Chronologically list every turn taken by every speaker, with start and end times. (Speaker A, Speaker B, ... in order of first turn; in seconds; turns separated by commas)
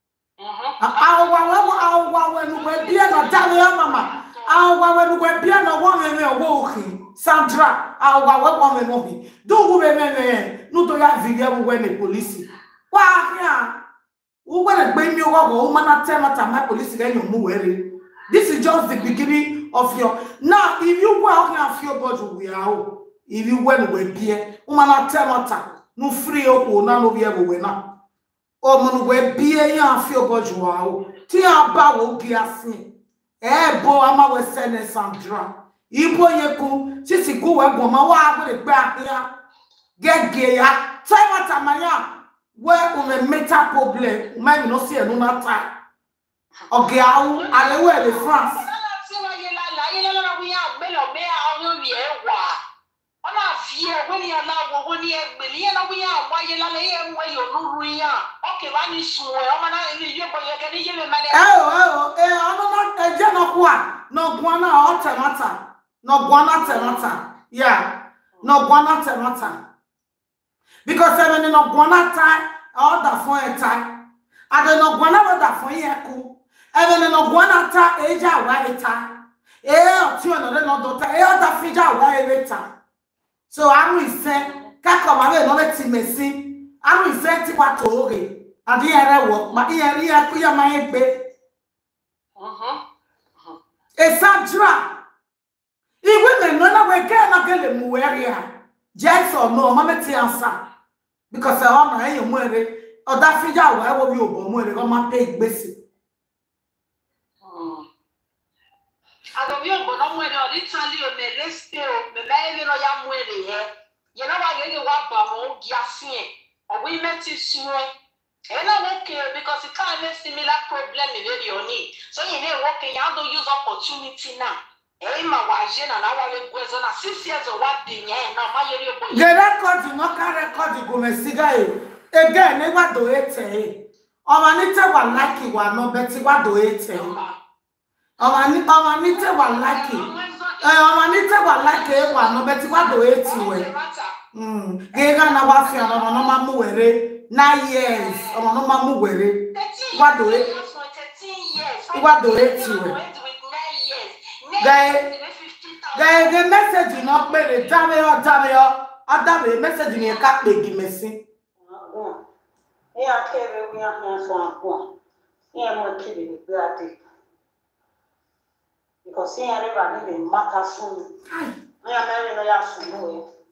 Speaker A: 0.4-1.9, Speaker B: 0.8-13.8, Speaker A: 2.5-4.6, Speaker B: 14.4-27.9, Speaker A: 18.8-19.2, Speaker B: 28.6-39.3, Speaker B: 40.0-45.7, Speaker B: 46.7-48.6, Speaker A: 47.1-52.6, Speaker A: 53.2-61.4, Speaker B: 61.3-69.6, Speaker A: 66.6-67.2, Speaker B: 70.8-82.7, Speaker B: 83.5-91.3, Speaker A: 84.3-84.7, Speaker A: 92.4-92.8, Speaker B: 94.0-95.0, Speaker B: 96.0-100.6, Speaker B: 101.3-105.8, Speaker A: 107.4-107.8, Speaker A: 109.3-117.9, Speaker A: 118.5-129.3, Speaker B: 129.1-137.2, Speaker A: 135.0-135.4, Speaker A: 136.9-137.3, Speaker B: 138.2-140.1, Speaker A: 139.1-144.1, Speaker B: 140.6-143.7, Speaker B: 144.3-150.5, Speaker A: 144.9-146.3, Speaker A: 147.8-148.4, Speaker A: 149.5-156.4, Speaker B: 151.9-152.9, Speaker B: 154.6-155.1, Speaker B: 155.9-161.2, Speaker A: 156.9-157.7, Speaker C: 161.6-162.2, Speaker C: 162.9-164.9, Speaker C: 165.5-167.0, Speaker C: 169.0-171.2, Speaker B: 171.3-171.6, Speaker C: 171.8-173.2